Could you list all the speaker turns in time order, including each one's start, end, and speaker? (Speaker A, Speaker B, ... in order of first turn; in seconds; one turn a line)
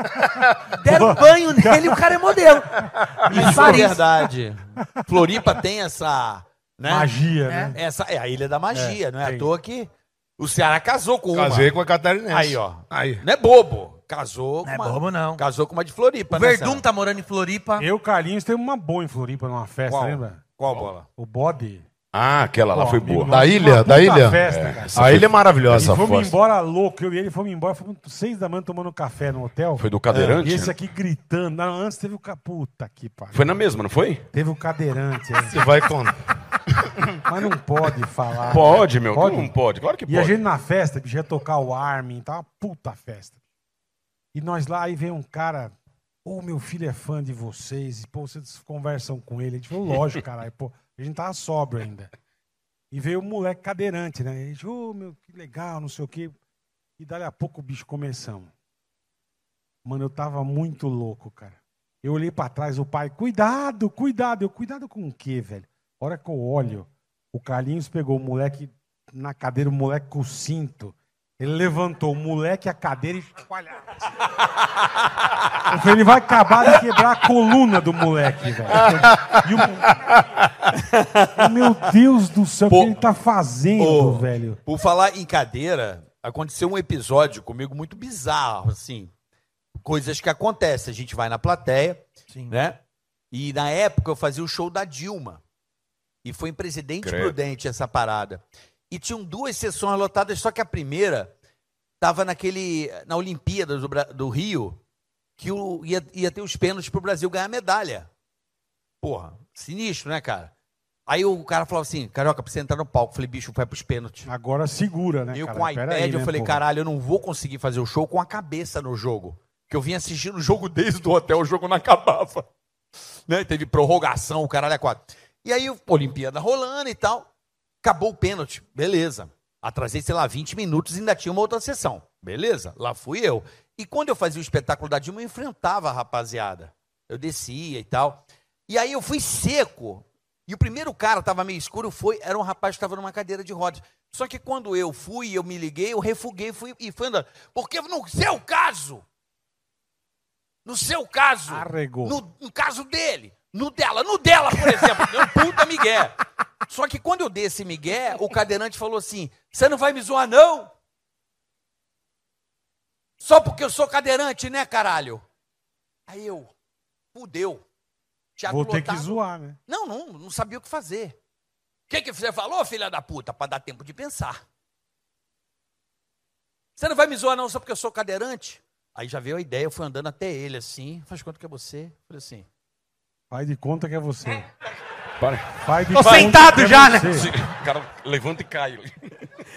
Speaker A: 0.2-2.0
Speaker B: 0.8-4.0
Speaker C: 3.3-7.1
Speaker A: 3.3-3.9
Speaker A: 6.9-7.8
Speaker B: 7.5-7.8
Speaker C: 7.8-11.7
Speaker A: 8.7-9.5
Speaker D: 11.3-13.2
Speaker C: 12.3-16.8
Speaker B: 14.7-15.4
Speaker B: 16.3-17.9
Speaker A: 17.8-20.4
Speaker C: 19.9-21.1
Speaker A: 21.2-21.9
Speaker E: 22.1-23.4
Speaker A: 22.7-24.9
Speaker D: 23.3-24.4
Speaker E: 24.4-26.3
Speaker D: 24.9-26.1
Speaker A: 25.7-33.6
Speaker E: 29.8-30.7
Speaker C: 30.1-30.4
Speaker E: 33.3-34.2
Speaker A: 34.3-35.6
Speaker D: 35.5-36.1
Speaker A: 37.3-39.5
Speaker E: 38.5-40.4
Speaker A: 40.1-43.4
Speaker A: 44.3-45.7
Speaker A: 46.2-52.1
Speaker A: 52.9-56.4
Speaker A: 57.0-58.5
Speaker A: 59.9-73.8
Speaker A: 75.7-79.9
Speaker D: 78.7-80.2
Speaker C: 80.8-81.3
Speaker A: 81.4-84.6
Speaker C: 82.7-83.0
Speaker C: 83.8-89.1
Speaker C: 89.8-92.8
Speaker C: 93.3-95.4
Speaker C: 96.2-101.3
Speaker E: 97.0-97.4
Speaker C: 102.0-104.8
Speaker C: 105.4-108.1
Speaker C: 109.0-110.5
Speaker C: 111.1-114.3
Speaker A: 114.3-116.6
Speaker C: 115.3-122.5
Speaker C: 123.3-127.3
Speaker C: 127.8-149.0
Speaker C: 150.7-160.7
Speaker A: 151.5-152.2
Speaker C: 163.2-165.2
Speaker C: 166.1-166.5
Speaker C: 167.1-167.6
Speaker C: 168.4-169.1
Speaker A: 168.5-169.6
Speaker C: 169.7-171.2
Speaker C: 171.9-174.4
Speaker C: 176.8-182.5
Speaker A: 183.3-184.4
Speaker E: 185.2-185.5
Speaker A: 185.6-187.3
Speaker B: 185.9-187.2
Speaker C: 186.0-186.3
Speaker E: 187.1-189.1